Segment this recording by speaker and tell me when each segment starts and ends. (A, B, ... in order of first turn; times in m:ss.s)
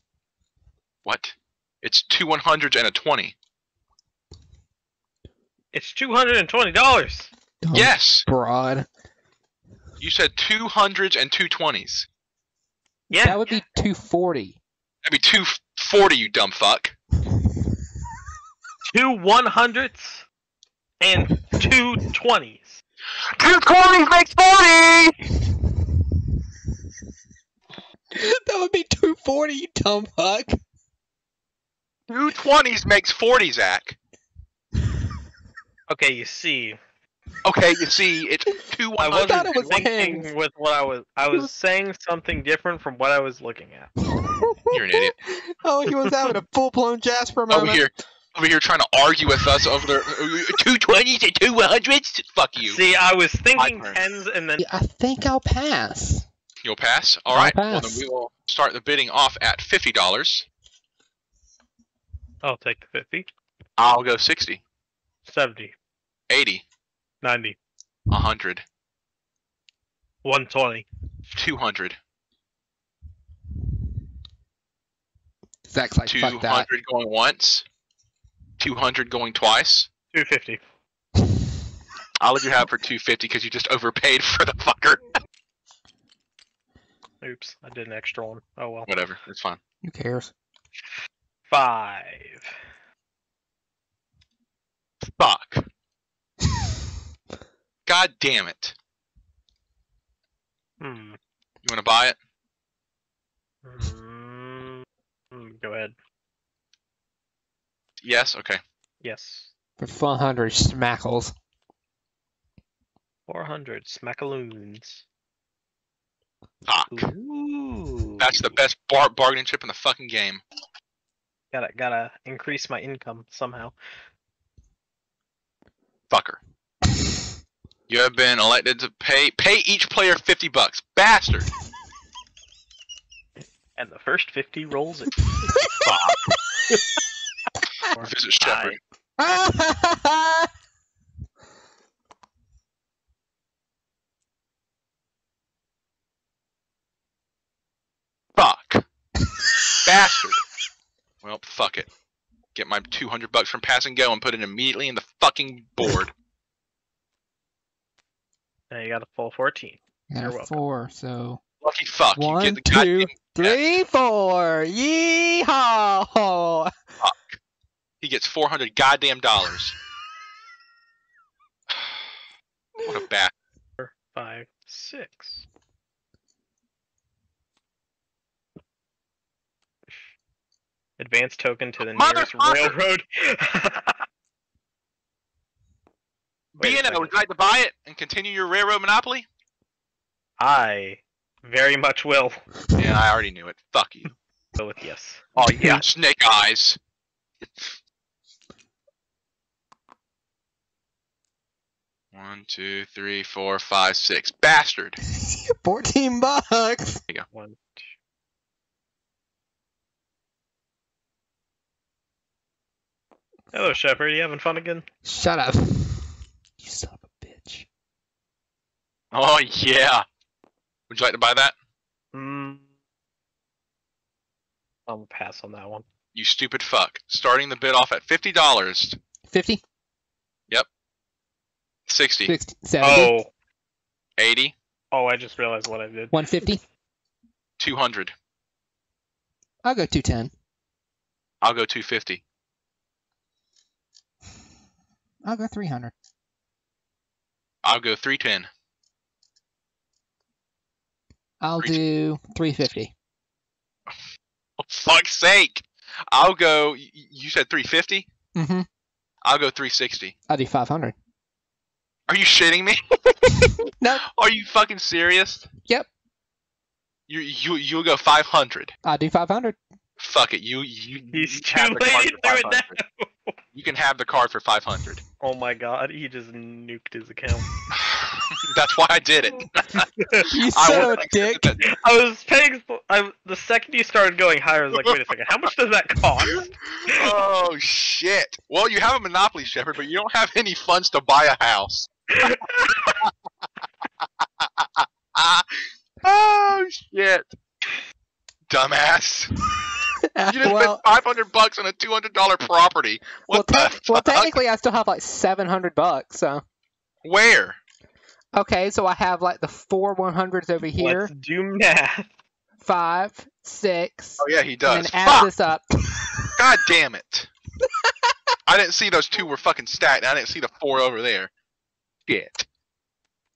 0:01.0-0:03.3 A
0:05.7-0:07.3 B
0:07.6-0:08.9 C
0:07.7-0:08.2 A
0:10.0-0:12.1 A
0:13.1-0:13.4 B
0:13.2-0:14.6 C
0:15.0-0:17.0 A
0:18.8-0:20.2 B
0:21.0-0:22.8 B
0:23.2-0:25.2 A
0:28.1-0:30.6 C
0:32.1-0:34.0 A
0:35.9-0:36.8 B
0:37.4-0:39.6 A
0:39.0-0:43.9 B
0:39.2-0:40.3 C
0:44.2-0:47.8 C
0:44.7-0:45.2 A
0:47.5-0:52.8 A
0:52.6-0:54.6 B
0:53.5-0:54.0 A
0:54.6-0:56.2 C
0:56.6-1:00.4 A
0:57.3-0:58.0 C
1:02.4-1:03.3 B
1:03.8-1:04.6 A
1:05.2-1:05.7 B
1:06.3-1:06.6 A
1:07.2-1:07.6 B
1:08.1-1:08.6 A
1:10.2-1:10.9 B
1:11.3-1:12.0 A
1:15.7-1:16.7 C
1:16.1-1:17.6 A
1:18.6-1:19.9 A
1:20.1-1:20.6 B
1:22.2-1:25.1 A
1:27.2-1:28.9 B
1:28.9-1:29.6 A
1:29.8-1:30.3 C
1:31.5-1:32.5 B
1:35.0-1:35.7 A
1:37.8-1:38.7 A
1:40.8-1:41.2 B
1:41.6-1:42.2 A
1:43.6-1:45.9 B
1:48.0-1:48.6 A
1:49.0-1:49.5 B
1:49.8-1:51.3 C
1:53.3-1:55.0 B
1:56.6-1:57.1 A
1:56.9-1:58.6 B
1:58.2-2:00.4 A
2:01.5-2:03.7 B
2:06.1-2:06.4 A
2:07.9-2:11.5 A
2:13.8-2:15.3 B
2:15.8-2:16.2 A
2:17.9-2:18.8 B
2:18.0-2:18.8 A
2:19.2-2:20.5 C
2:28.3-2:28.8 A
2:29.8-2:30.4 A
2:31.2-2:31.9 A
2:32.5-2:36.1 A
2:38.7-2:40.6 B
2:40.1-2:41.4 C
2:41.6-2:43.6 A
2:42.1-2:46.7 C
2:47.0-2:47.4 A
2:48.0-2:49.8 A
2:51.7-2:52.1 A
2:52.8-2:53.3 A
2:53.8-2:55.4 B
3:01.0-3:04.0 B
3:01.8-3:02.7 A
3:06.6-3:07.2 B
3:06.6-3:09.3 A
3:10.4-3:12.4 B
3:12.7-3:14.1 A
3:14.6-3:15.3 B
3:15.4-3:16.8 A
3:15.5-3:15.7 C
3:22.1-3:25.0 A
3:25.2-3:27.0 C
3:27.3-3:27.9 B
3:33.5-3:34.8 B
3:35.0-3:37.6 C
3:39.1-3:40.0 A
3:40.9-3:41.5 A
3:42.1-3:42.7 B
3:44.9-3:45.8 B
3:46.1-3:49.0 A
3:49.3-3:49.6 C
3:51.9-3:52.3 A
3:52.2-3:53.1 C
3:52.8-3:53.3 B
3:54.2-3:54.5 A
3:54.9-3:56.1 B
3:56.1-3:56.6 C
3:57.6-3:58.1 A
3:59.6-4:00.3 C
4:01.4-4:02.2 A
4:05.2-4:05.9 C
4:07.6-4:08.5 A
4:11.4-4:12.9 C
4:14.6-4:18.1 A
4:18.3-4:18.6 C
4:19.2-4:20.1 A
4:20.3-4:20.9 C
4:22.1-4:25.5 A
4:23.8-4:24.0 C
4:27.1-4:28.7 A
4:28.8-4:29.6 C
4:30.0-4:32.8 A
4:31.1-4:33.4 B
4:33.5-4:35.0 A
4:35.2-4:37.5 B
4:37.7-4:41.7 A
4:39.8-4:40.9 B
4:40.2-4:41.6 C
4:41.6-4:47.1 B
4:46.2-4:53.1 A
4:52.2-4:53.0 B
4:54.0-4:57.3 A
4:58.5-4:59.3 A
5:00.1-5:00.8 C
5:00.3-5:04.3 A
5:03.3-5:06.4 C
5:07.0-5:07.6 A
5:08.3-5:11.1 C
5:10.8-5:12.1 B
5:12.6-5:16.3 C
5:14.2-5:15.3 A
5:16.4-5:17.3 A
5:18.5-5:21.3 A
5:22.1-5:22.4 A